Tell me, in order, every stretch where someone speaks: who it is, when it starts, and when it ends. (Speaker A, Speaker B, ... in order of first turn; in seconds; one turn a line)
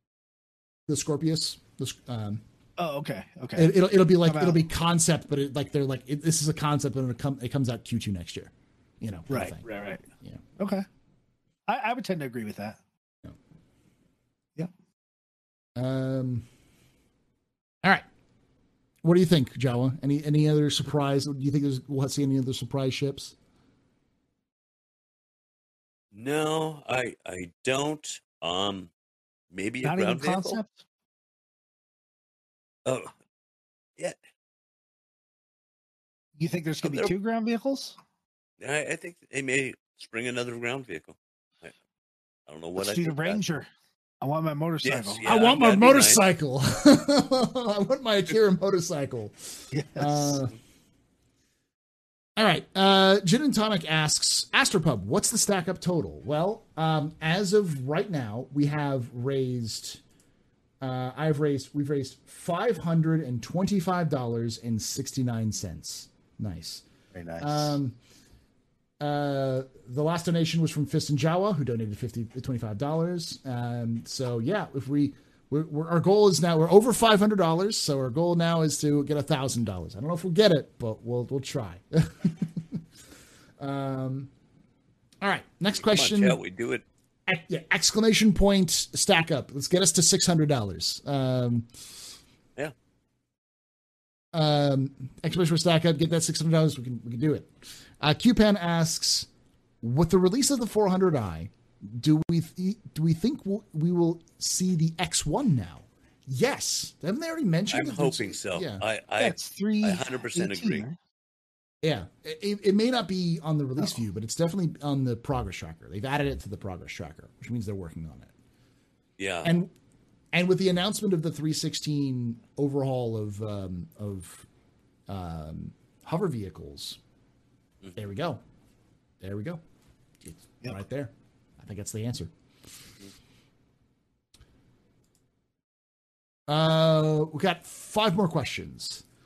Speaker A: 0.9-2.4
Speaker B: 2.8-4.6
Speaker A: 3.5-9.6
Speaker B: 9.3-10.1
Speaker B: 10.6-10.8
Speaker B: 11.7-12.8
Speaker A: 15.8-16.4
Speaker A: 19.0-23.3
Speaker C: 26.1-28.9
Speaker C: 29.5-30.6
Speaker B: 29.8-30.7
Speaker C: 32.8-33.1
Speaker B: 36.4-38.0
Speaker C: 36.8-37.1
Speaker C: 38.6-41.7
Speaker C: 42.5-43.4
Speaker B: 42.8-43.7
Speaker B: 44.2-45.2
Speaker C: 44.8-46.2
Speaker A: 45.2-50.5
Speaker B: 49.7-50.4
Speaker A: 52.4-60.0
Speaker A: 60.8-66.8
Speaker B: 67.1-67.8
Speaker A: 67.4-68.0
Speaker A: 69.0-82.8
Speaker A: 83.6-84.3
Speaker A: 85.2-86.4
Speaker C: 85.8-86.8
Speaker A: 87.3-91.7
Speaker A: 94.3-99.3
Speaker A: 99.8-108.8
Speaker C: 107.7-110.8
Speaker B: 109.2-111.0
Speaker A: 111.8-118.3
Speaker C: 119.2-119.5
Speaker A: 119.4-119.7
Speaker A: 120.3-124.5
Speaker A: 125.1-127.0
Speaker A: 128.0-128.4
Speaker A: 129.2-129.6
Speaker A: 130.2-132.3
Speaker A: 136.5-139.0